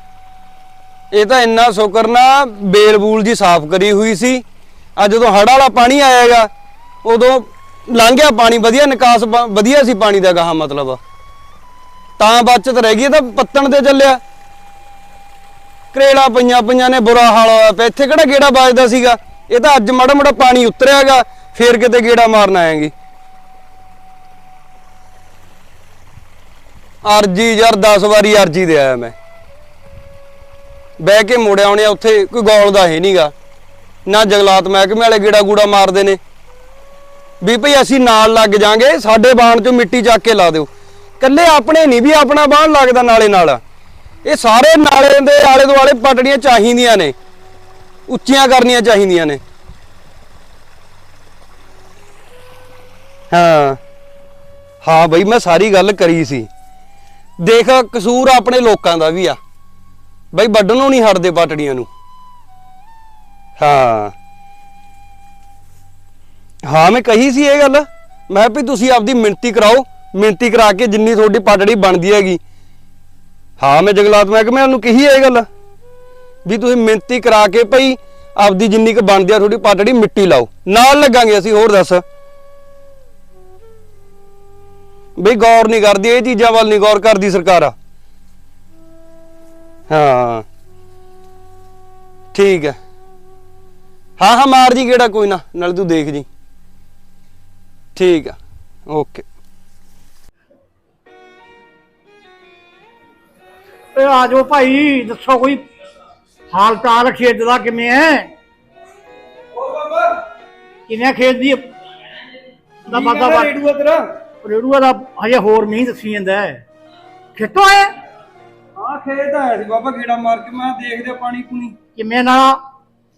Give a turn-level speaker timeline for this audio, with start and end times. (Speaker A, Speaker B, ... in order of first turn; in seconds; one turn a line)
Speaker A: 1.1-4.4
Speaker A: 5.0-6.5
Speaker A: 7.0-11.0
Speaker A: 12.2-14.2
Speaker A: 15.9-22.9
Speaker A: 27.0-29.1
Speaker A: 31.0-33.3
Speaker A: 34.1-36.2
Speaker A: 37.4-40.7
Speaker A: 41.2-43.6
Speaker A: 44.2-47.1
Speaker A: 48.1-49.4
Speaker A: 53.3-53.8
Speaker A: 54.8-56.5
Speaker A: 57.4-59.4
Speaker A: 60.3-61.9
Speaker A: 63.6-64.1
Speaker A: 66.7-72.4
Speaker A: 73.6-75.4
Speaker A: 76.5-82.0
Speaker A: 85.2-87.7
Speaker A: 89.9-90.4
Speaker A: 92.3-92.8
Speaker A: 94.2-96.2
Speaker A: 98.0-98.4
Speaker A: 98.9-99.2
Speaker B: 103.9-105.6
Speaker B: 106.5-108.3
Speaker C: 109.5-110.2
Speaker B: 110.9-111.6
Speaker C: 112.9-114.0
Speaker B: 112.9-113.5
Speaker B: 114.4-116.6
Speaker B: 117.4-117.9
Speaker C: 118.8-121.8
Speaker B: 122.0-122.6